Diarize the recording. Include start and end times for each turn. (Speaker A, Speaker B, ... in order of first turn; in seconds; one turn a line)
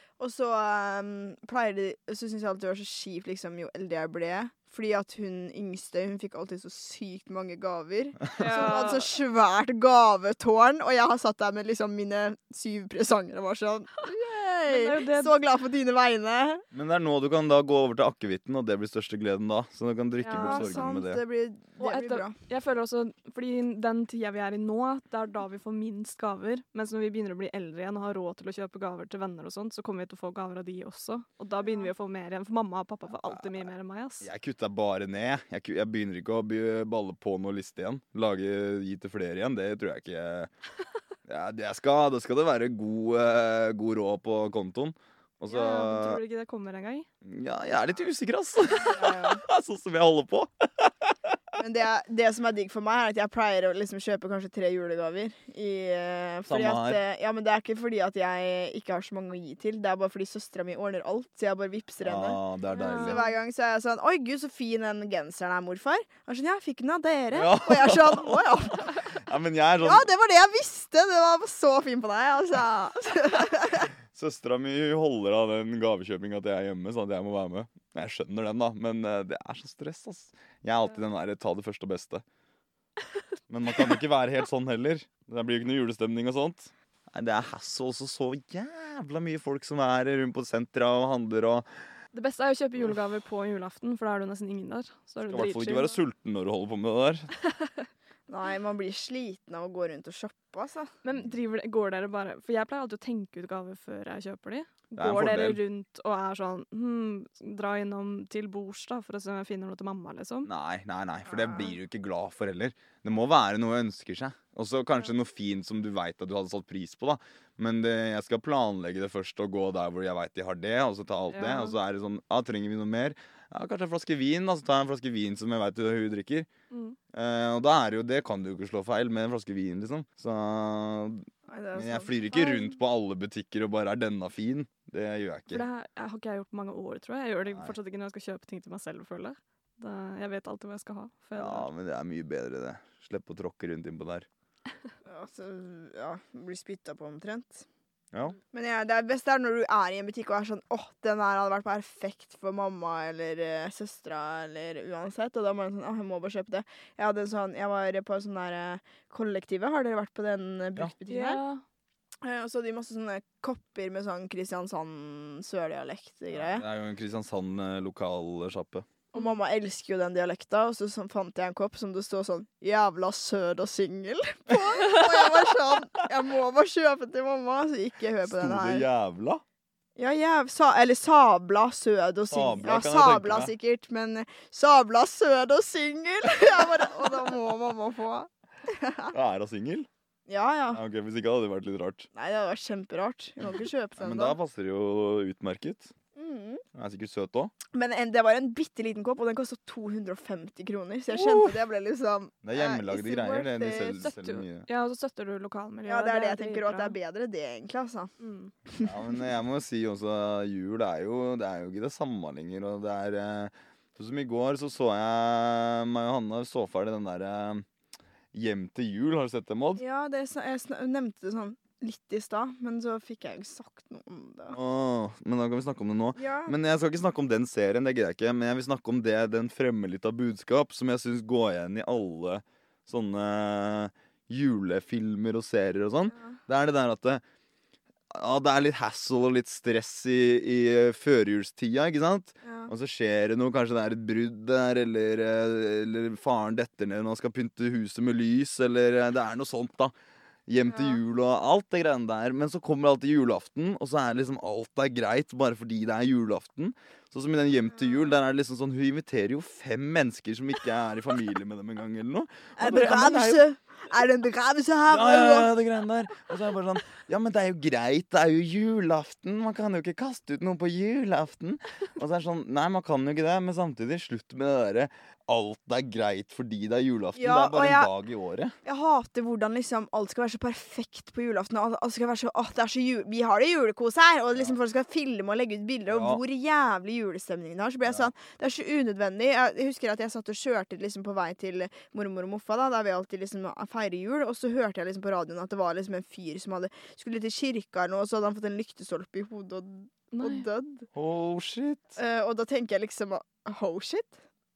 Speaker A: 0.2-16.6
Speaker B: 8.4-9.1
Speaker B: 14.7-15.3
Speaker C: 16.7-21.2
Speaker B: 20.2-20.8
Speaker A: 20.3-22.3
Speaker B: 21.8-34.3
Speaker C: 33.2-33.7
Speaker C: 34.2-40.5
Speaker C: 41.3-46.2
Speaker B: 45.5-47.1
Speaker C: 47.2-51.4
Speaker A: 48.9-49.4
Speaker A: 51.6-69.0
Speaker C: 56.5-57.0
Speaker C: 62.0-63.2
Speaker B: 62.7-63.3
Speaker C: 67.3-68.5
Speaker C: 69.1-70.1
Speaker A: 69.8-73.9
Speaker C: 74.1-82.2
Speaker C: 83.5-91.7
Speaker B: 92.1-96.0
Speaker C: 95.3-97.3
Speaker A: 98.3-100.9
Speaker B: 101.0-110.5
Speaker C: 105.0-105.6
Speaker C: 110.5-126.5
Speaker A: 111.3-111.7
Speaker B: 121.3-121.8
Speaker B: 126.7-127.0
Speaker C: 127.1-135.7
Speaker A: 131.5-132.1
Speaker B: 132.3-132.6
Speaker B: 135.5-141.7
Speaker C: 141.4-144.3
Speaker A: 145.1-147.7
Speaker A: 148.5-161.4
Speaker B: 161.1-161.6
Speaker A: 162.2-166.7
Speaker C: 166.3-168.9
Speaker A: 169.1-178.9
Speaker C: 178.2-179.4
Speaker A: 180.0-189.1
Speaker C: 182.3-183.5
Speaker C: 189.1-189.9
Speaker A: 190.3-190.8
Speaker C: 190.7-192.1
Speaker A: 192.1-194.4
Speaker C: 194.0-195.9
Speaker A: 196.2-196.6
Speaker C: 196.8-197.5
Speaker A: 197.7-204.1
Speaker C: 201.1-201.6
Speaker C: 202.4-204.7
Speaker B: 204.0-207.0
Speaker A: 205.9-208.1
Speaker B: 208.2-208.5
Speaker A: 208.7-209.2
Speaker C: 208.8-217.7
Speaker C: 218.3-219.8
Speaker A: 219.8-224.6
Speaker C: 224.5-237.2
Speaker A: 226.2-226.5
Speaker A: 236.1-236.4
Speaker C: 238.1-249.9
Speaker A: 242.4-242.7
Speaker C: 250.5-263.4
Speaker A: 250.7-251.0
Speaker A: 262.6-265.5
Speaker C: 264.9-278.5
Speaker A: 277.2-277.9
Speaker A: 278.6-300.9
Speaker C: 285.9-286.2
Speaker B: 300.1-300.5
Speaker C: 300.9-302.0
Speaker A: 302.0-304.2